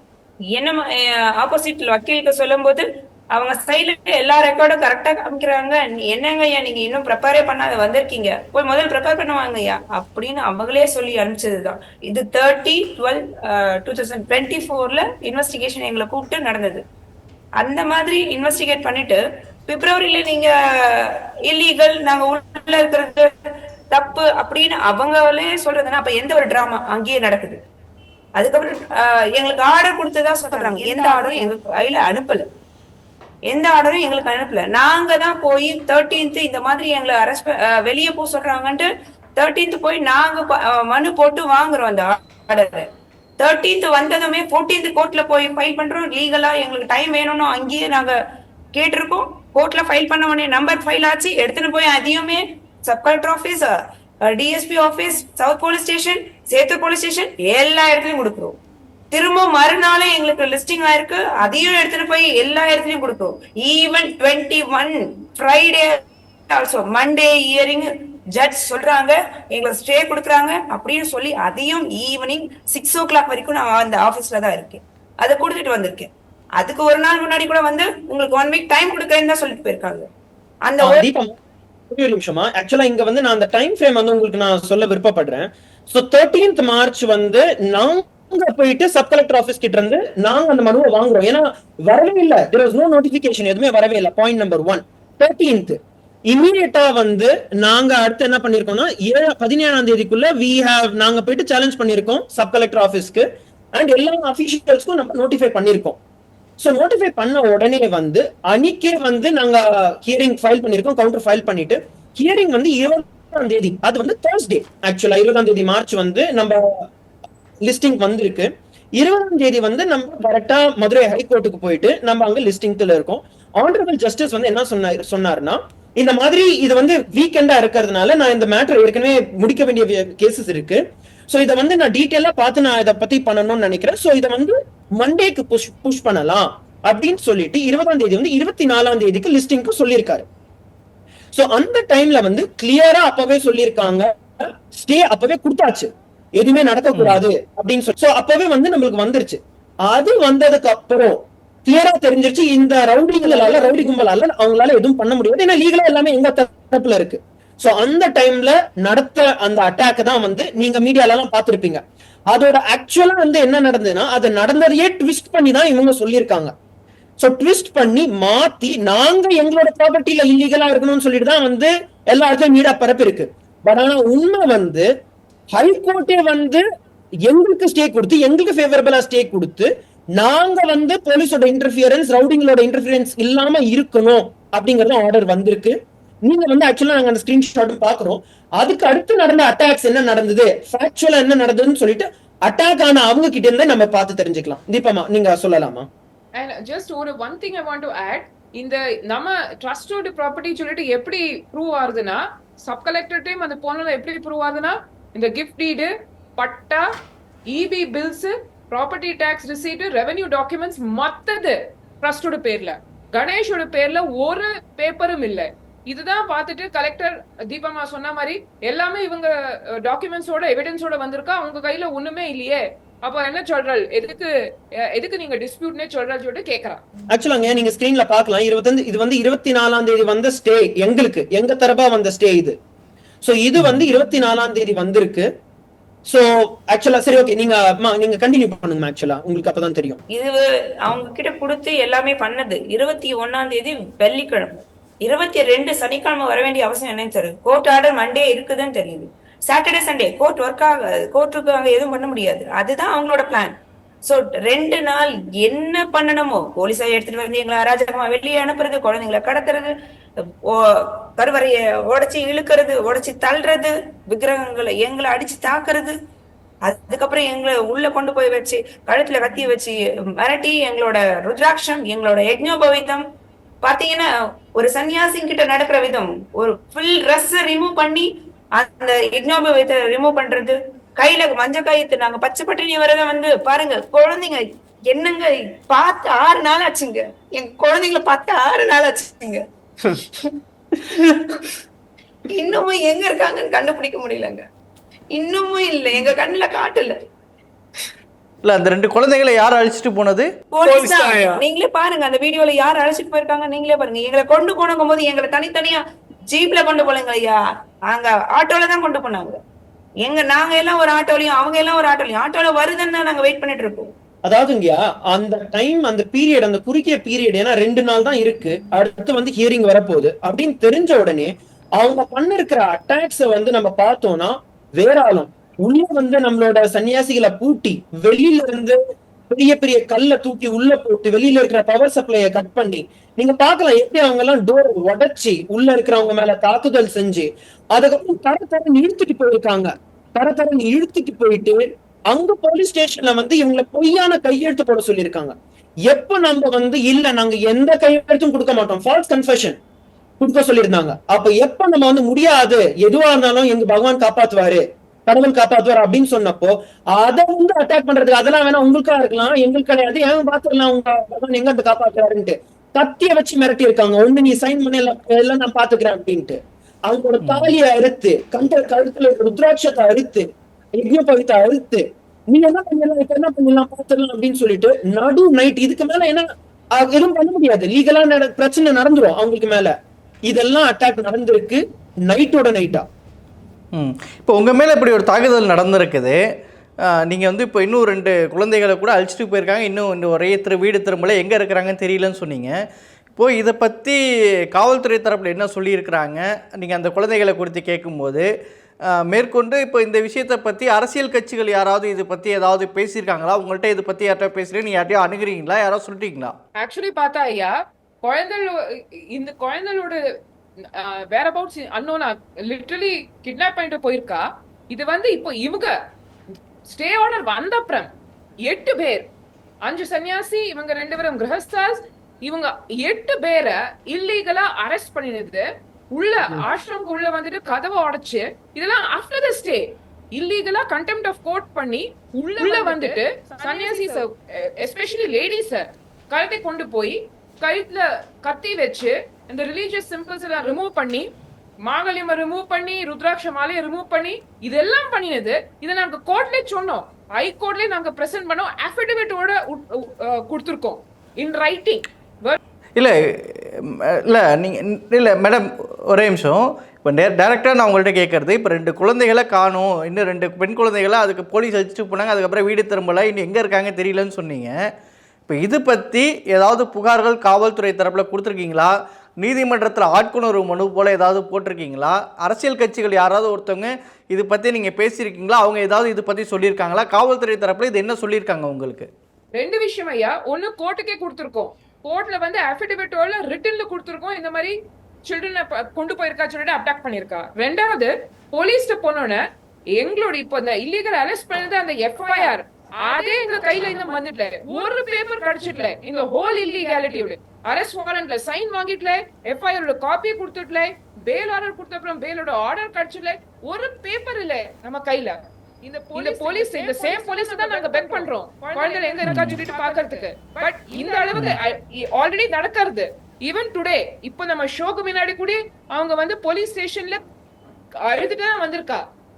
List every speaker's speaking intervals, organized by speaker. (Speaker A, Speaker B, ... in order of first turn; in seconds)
Speaker A: 0.5-16.8, 17.6-23.3, 23.9-27.6, 28.4-32.4, 33.5-48.1, 48.7-58.5, 59.1-66.0, 66.5-80.1, 80.7-81.1, 240.1-259.7, 260.4-265.9, 266.6-273.0, 273.6-290.0, 292.3-294.4, 295.1-296.9, 300.5-309.4, 310.0-313.9
Speaker B: 80.8-81.3, 81.9-106.0, 106.6-116.8, 117.6-140.2, 141.3-166.5, 167.2-174.9, 175.5-176.6, 177.2-185.7, 186.2-195.9, 227.1-232.6, 233.2-235.3, 236.1-240.0, 300.6-301.4, 314.2-328.8, 329.3-345.3, 345.8-349.6, 350.2-379.7, 380.2-382.9
Speaker C: 146.9-147.2, 298.4-300.3, 367.2-367.5, 383.7-386.2, 386.8-392.6, 393.1-394.0, 394.5-398.3, 398.9-406.3, 452.8-464.6, 465.3-478.9, 509.0-509.4
Speaker D: 196.3-206.8, 207.5-226.8, 406.6-408.6, 409.1-410.0, 410.8-415.7, 416.7-417.9, 418.4-419.0, 419.6-441.0, 441.6-452.4, 479.3-484.5, 485.1-489.2, 489.7-517.0, 517.8-518.8